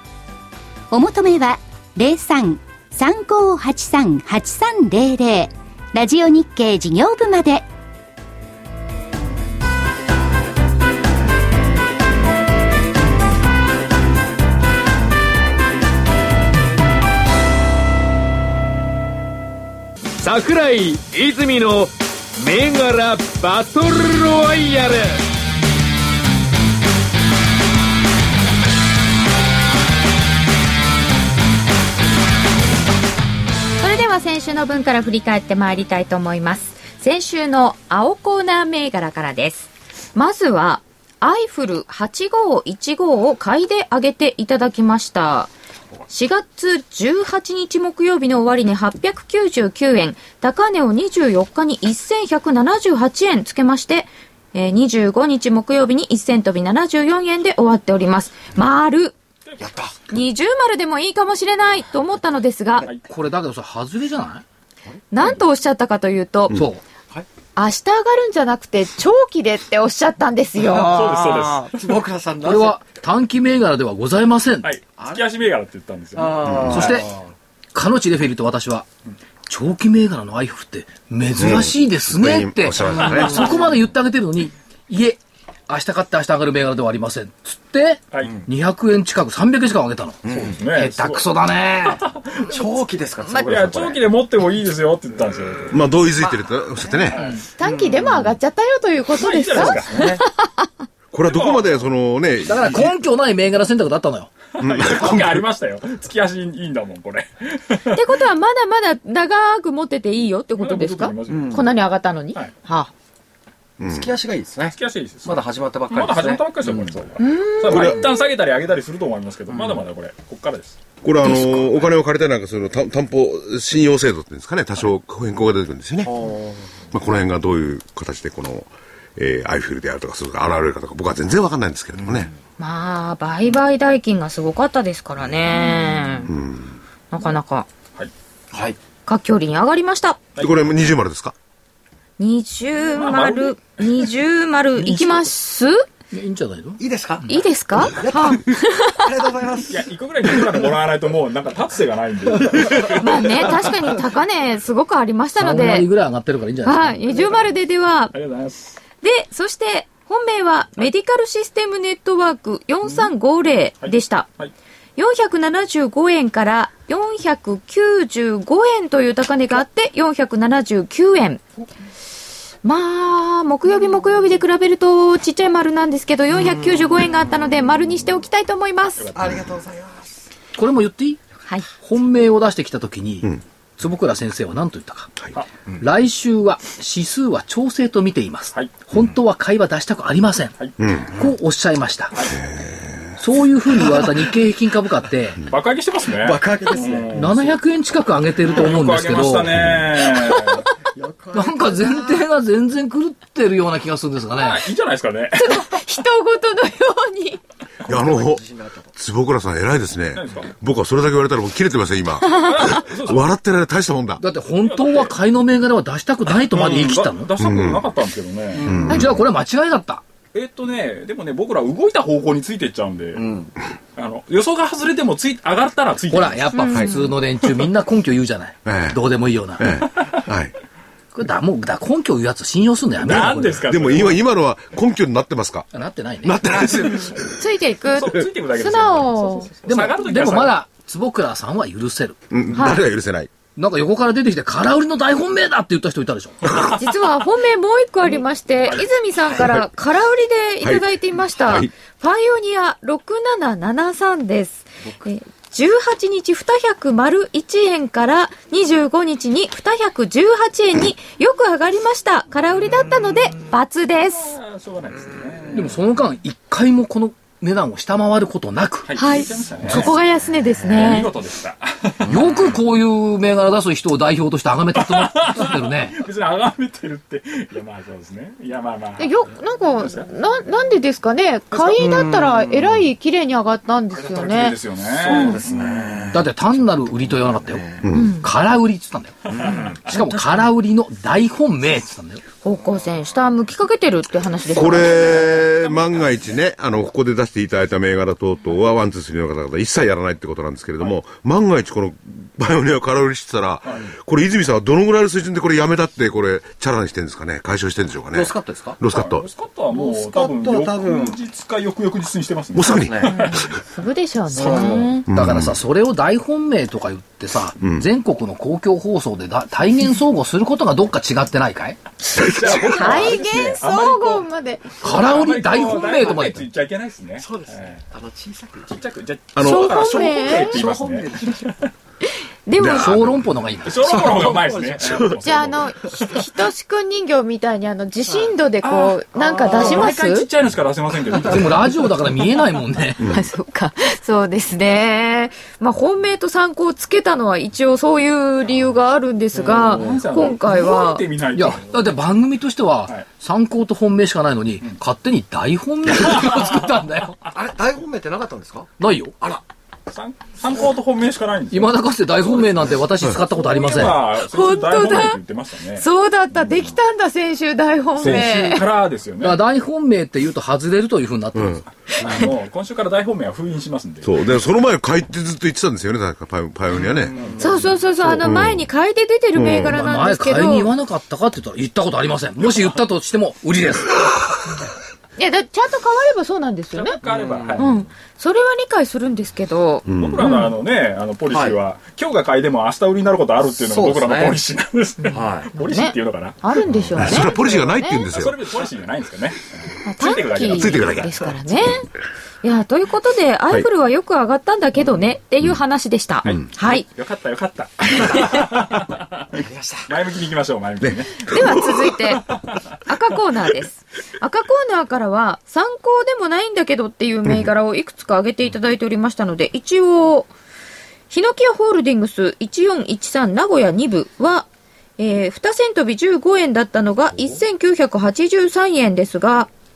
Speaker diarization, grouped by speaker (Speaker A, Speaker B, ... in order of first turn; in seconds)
Speaker A: 0.9-7.7
Speaker B: 20.2-25.3
Speaker C: 33.8-45.5, 46.1-59.1, 60.1-62.9, 65.1-66.6, 67.5-71.0, 93.2-93.7, 97.6-100.7, 107.9-112.9, 117.2-118.1, 132.6-136.3, 137.1-137.7, 139.1-140.2, 142.2-145.8, 147.3-149.1, 152.8-155.9, 156.6-158.1, 159.0-164.3, 165.0-171.4, 172.6-179.1, 205.3-207.4, 226.5-227.1, 237.3-239.5, 242.6-242.8, 246.6-264.3, 268.9-271.1, 279.0-284.6, 285.1-285.4, 287.9-288.2, 292.4-295.0, 313.1-315.1, 322.6-324.7, 329.4-330.6, 332.4-333.0, 335.2-340.3, 343.0-351.0, 364.2-365.2, 365.8-368.6, 377.4-380.7, 385.2-387.0, 387.6-390.5, 395.0-398.1, 399.8-401.9, 402.4-406.9, 411.2-412.2, 412.8-420.3, 421.1-424.5, 425.0-429.5
Speaker D: 59.6-59.9, 70.6-72.8, 76.2-77.2, 83.1-83.4, 90.3-90.6, 92.4-94.0, 96.2-98.3, 99.5-100.2, 111.3-111.7, 113.8-116.9, 119.5-119.8, 126.0-126.7, 138.5-138.8, 146.8-147.3, 147.8-149.8, 152.6-152.8, 179.1-180.1, 196.2-197.4, 200.9-202.0, 207.9-208.9, 223.2-223.5, 281.6-282.9, 284.9-286.3, 287.5-287.8, 289.3-290.3, 308.1-308.8, 309.7-311.2, 312.7-313.1, 314.3-315.0, 327.2-328.8, 330.5-331.4, 333.9-335.2, 349.4-350.0, 357.3-358.7, 376.8-377.7, 387.0-387.7, 391.3-391.6, 393.6-394.4, 395.1-395.5, 409.3-409.9
Speaker E: 63.0-64.4, 66.5-66.8, 72.4-74.7, 76.7-77.1, 77.7-78.9, 79.5-92.0, 97.2-97.4, 102.4-104.3, 146.1-147.3, 155.4-157.0, 180.6-181.2, 181.8-185.2, 185.8-190.6, 191.1-192.1, 193.2-195.5, 197.1-199.7, 201.3-204.7, 214.2-217.3, 218.7-220.0, 226.1-229.7, 231.1-233.7, 235.7-236.5, 239.7-242.2, 243.6-246.6, 265.5-268.9, 272.1-276.0, 286.1-292.2, 315.1-321.8, 324.8-326.4, 332.7-333.9, 341.1-343.0, 351.3-357.2, 358.8-359.4, 361.5-364.0, 368.0-368.6, 369.2-372.2, 379.6-384.5
Speaker F: 70.7-71.9, 74.6-77.0, 88.1-88.4, 90.3-91.2, 91.8-92.6, 93.5-95.8, 97.1-97.4, 99.1-100.2, 101.2-101.8, 104.5-108.0, 110.6-111.7, 114.7-120.8, 140.3-140.7, 142.9-143.7, 144.8-145.2, 149.7-153.5, 158.1-158.8, 163.8-164.5, 179.0-179.5, 195.5-197.5, 198.4-200.7, 204.3-205.7, 210.1-210.5, 212.2-213.3, 214.6-215.1, 216.3-218.9, 220.3-223.2, 223.9-226.7, 233.0-234.2, 237.9-240.6, 264.1-265.8, 268.9-269.9, 270.6-272.3, 274.7-280.1, 283.9-286.1, 289.2-289.9, 294.9-296.2, 308.9-313.5, 322.1-327.8, 328.7-331.7, 333.6-335.9, 338.6-341.7, 349.4-352.0, 359.9-361.8, 363.2-366.7, 368.0-369.4, 372.0-374.2, 377.1-377.5, 386.7-387.8, 389.9-396.4, 397.1-401.1, 406.3-411.3
Speaker G: 76.5-76.8, 81.4-83.6, 95.7-97.2, 101.1-102.9, 104.6-105.4, 113.8-114.1, 117.7-118.0, 121.0-126.2, 126.9-132.3, 136.3-136.7, 140.4-141.3, 190.8-191.1, 192.4-193.1, 207.9-208.4, 208.9-214.2, 217.4-217.8, 218.7-219.2, 228.6-229.0, 229.6-230.5, 233.7-235.7, 236.2-237.3, 242.3-243.3, 249.4-249.6, 250.6-251.7, 287.8-288.1, 294.5-309.2, 312.5-313.3, 315.1-315.6, 317.6-317.9, 322.1-322.6, 329.3-329.9, 332.6-333.3, 343.0-343.3, 371.3-371.6, 374.0-377.2, 378.1-378.7, 379.3-379.8, 389.9-390.2, 396.9-398.4, 400.4-401.2, 410.8-411.6